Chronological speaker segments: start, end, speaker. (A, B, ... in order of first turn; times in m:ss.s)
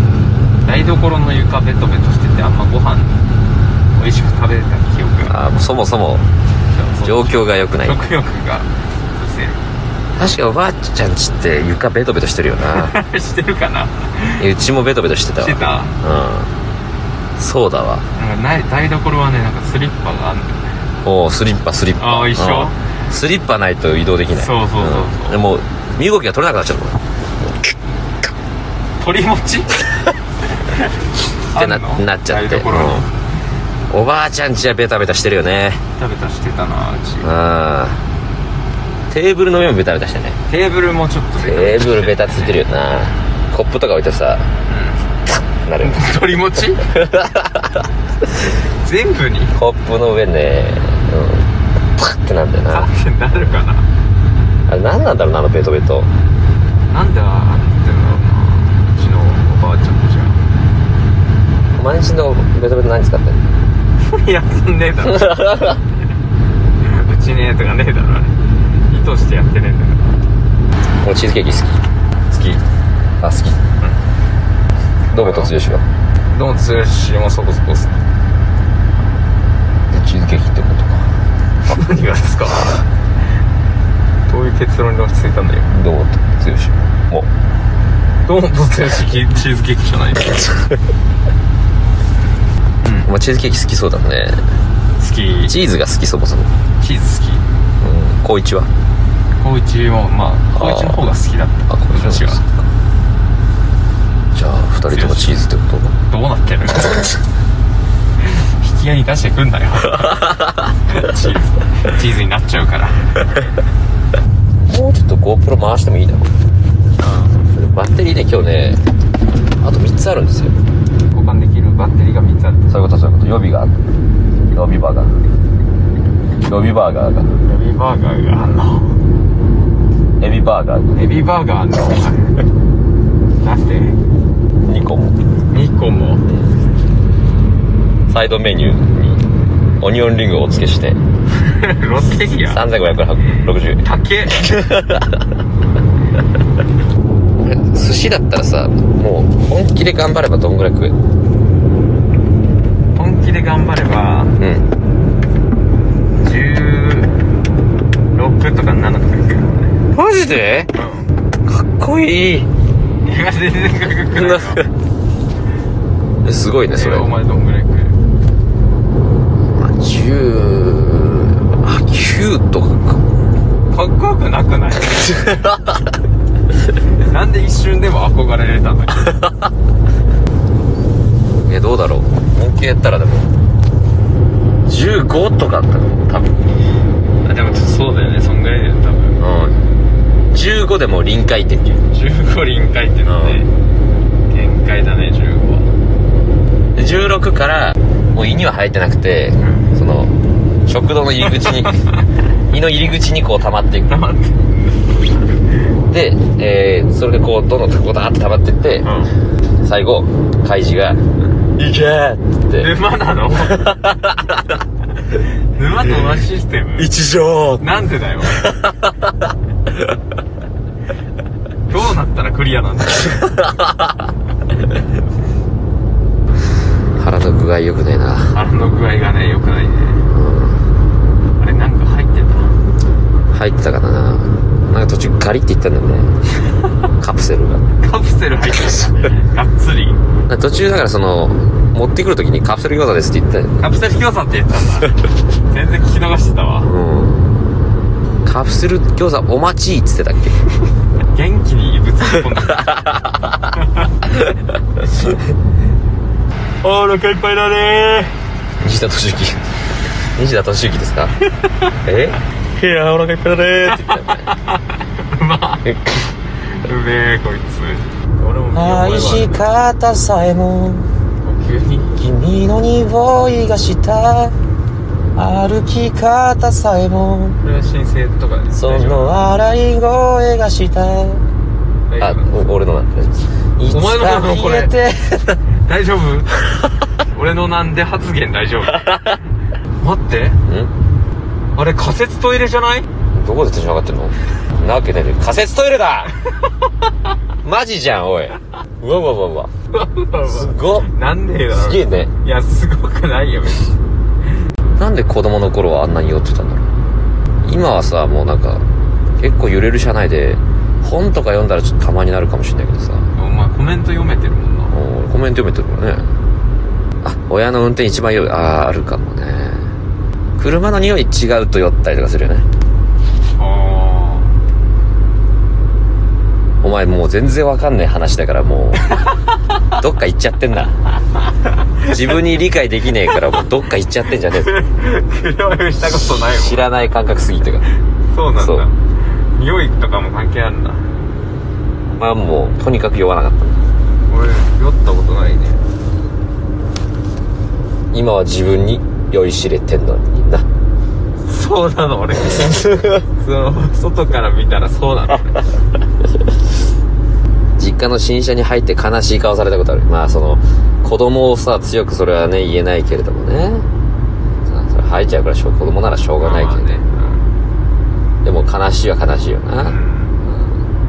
0:00.6-0:03.2 A
0:04.0-0:05.4 A
0:05.3-0:06.2 B
0:06.7-0:09.7 A
0:07.0-0:08.0 B
0:10.2-0:13.0 B
0:12.7-0:14.5 A
0:14.4-0:16.5 B
0:15.4-0:15.9 A
0:17.4-0:18.1 B
0:18.2-0:20.6 A
0:21.0-0:27.0 B
0:22.0-0:22.8 A
0:24.3-0:25.4 A
0:29.0-0:30.0 A
0:31.4-0:33.2 A
0:31.6-0:33.1 B
0:33.9-0:35.8 B
0:36.0-0:37.3 A
0:37.2-0:38.0 B
0:39.1-0:40.4 B
0:40.5-0:42.6 A
0:41.4-0:44.5 B
0:44.7-0:45.1 A
0:45.6-0:46.2 B
0:45.8-0:46.9 A
0:46.7-0:47.9 B
0:48.7-0:49.5 A
0:49.6-0:53.6 B
0:52.7-0:53.9 A
0:54.7-0:56.1 B
0:56.9-1:00.4 A
1:01.8-1:03.5 B
1:04.0-1:05.8 A
1:05.2-1:05.8 B
1:06.8-1:10.2 A
1:11.0-1:11.8 B
1:12.3-1:12.6 A
1:13.2-1:13.6 B
1:15.1-1:15.5 A
1:15.1-1:15.8 B
1:16.3-1:18.0 A
1:19.9-1:21.1 B
1:21.7-1:22.8 A
1:24.3-1:25.7 A
1:25.7-1:27.3 B
1:28.2-1:30.6 A
1:32.8-1:33.1 A
1:33.0-1:34.4 B
1:35.0-1:35.6 A
1:35.5-1:36.5 B
1:36.8-1:37.5 A
1:37.8-1:38.7 B
1:39.4-1:42.4 A
1:40.5-1:41.1 B
1:41.7-1:42.5 B
1:44.3-1:46.0 B
1:44.9-1:45.4 A
1:46.1-1:47.1 A
1:48.2-1:53.1 A
1:54.7-1:56.3 B
1:57.0-1:57.4 A
1:57.4-1:58.8 B
1:59.6-2:00.5 B
2:01.1-2:02.8 A
2:02.7-2:03.8 B
2:04.5-2:05.2 B
2:06.4-2:07.4 B
2:07.4-2:09.0 A
2:10.2-2:11.0 B
2:10.9-2:12.4 A
2:13.4-2:14.0 A
2:14.6-2:15.2 B
2:15.5-2:16.2 A
2:16.3-2:16.5 B
2:18.1-2:19.3 B
2:19.8-2:21.0 B
2:21.4-2:22.6 A
2:22.4-2:25.2 B
2:23.8-2:24.4 A
2:27.4-2:31.0 B
2:33.0-2:34.4 A
2:34.4-2:34.7 B
2:36.2-2:37.2 A
2:38.1-2:39.7 A
2:39.9-2:40.7 B
2:40.8-2:41.1 A
2:41.5-2:42.5 B
2:43.0-2:44.7 A
2:44.1-2:44.7 B
2:46.2-2:47.1 B
2:46.7-2:48.0 A
2:49.5-2:53.0 B
2:53.7-2:55.5 A
2:55.0-2:55.8 B
2:57.0-2:59.2 A
3:01.5-3:03.3 B
3:04.7-3:06.4 B
3:07.2-3:09.2 A
3:09.2-3:09.6 B
3:10.3-3:11.8 B
3:11.9-3:13.5 A
3:13.1-3:13.4 B
3:14.3-3:15.7 A
3:16.8-3:20.1 B
3:19.4-3:19.7 A
3:20.7-3:21.8 B
3:22.5-3:23.9 B
3:23.9-3:24.5 A
3:25.9-3:28.9 B
3:28.8-3:29.2 A
3:29.6-3:31.0 B
3:31.6-3:32.7 B
3:32.6-3:33.7 A
3:33.5-3:34.4 B
3:35.2-3:36.9 A
3:36.8-3:37.7 B
3:37.6-3:38.5 A
3:38.3-3:39.1 B
3:41.7-3:43.5 A
3:47.0-3:48.4 B
3:48.3-3:50.1 A
3:50.1-3:50.6 B
3:51.4-3:52.6 A
3:53.3-3:56.1 B
3:57.0-3:57.7 B
3:57.8-4:00.0 A
4:00.3-4:03.6 B
4:03.6-4:06.7 A
4:06.6-4:07.3 B
4:08.2-4:10.4 B
4:11.1-4:12.8 A
4:12.5-4:13.4 B
4:16.6-4:18.2 A
4:18.6-4:19.4 B
4:20.2-4:21.1 B
4:21.8-4:24.3 B
4:24.3-4:25.7 A
4:25.6-4:26.1 B
4:26.6-4:29.5 A
4:28.5-4:30.9 B
4:31.2-4:31.9 A
4:32.0-4:34.4 B
4:35.2-4:37.4 B
4:37.4-4:39.2 A
4:38.5-4:41.2 B
4:41.9-4:42.3 A
4:42.0-4:45.4 B
4:43.7-4:44.7 A
4:45.6-4:46.4 A
4:47.0-4:49.0 A
4:49.8-4:50.4 A
4:50.5-4:50.7 B
4:51.5-4:52.9 A
4:53.2-4:56.1 B
4:57.4-4:59.5 B
4:59.7-5:03.8 A
5:00.3-5:00.9 B
5:01.5-5:02.1 B
5:04.8-5:06.7 B
5:07.4-5:08.6 B
5:09.2-5:13.1 B
5:13.2-5:14.8 A
5:14.7-5:16.1 B
5:17.0-5:19.7 B
5:20.4-5:22.5 B
5:23.4-5:24.4 A
5:26.6-5:28.9 B
5:29.8-5:30.8 B
5:31.8-5:34.6 B
5:34.3-5:36.7 A
5:36.3-5:37.7 B
5:38.1-5:40.9 A
5:38.4-5:38.7 B
5:41.9-5:43.6 B
5:44.1-5:45.6 A
5:47.9-5:50.5 B
5:51.2-5:55.4 A
5:57.6-6:03.7 B
6:04.5-6:06.8 B
6:06.2-6:07.2 A
6:08.2-6:10.5 B
6:09.6-6:10.2 A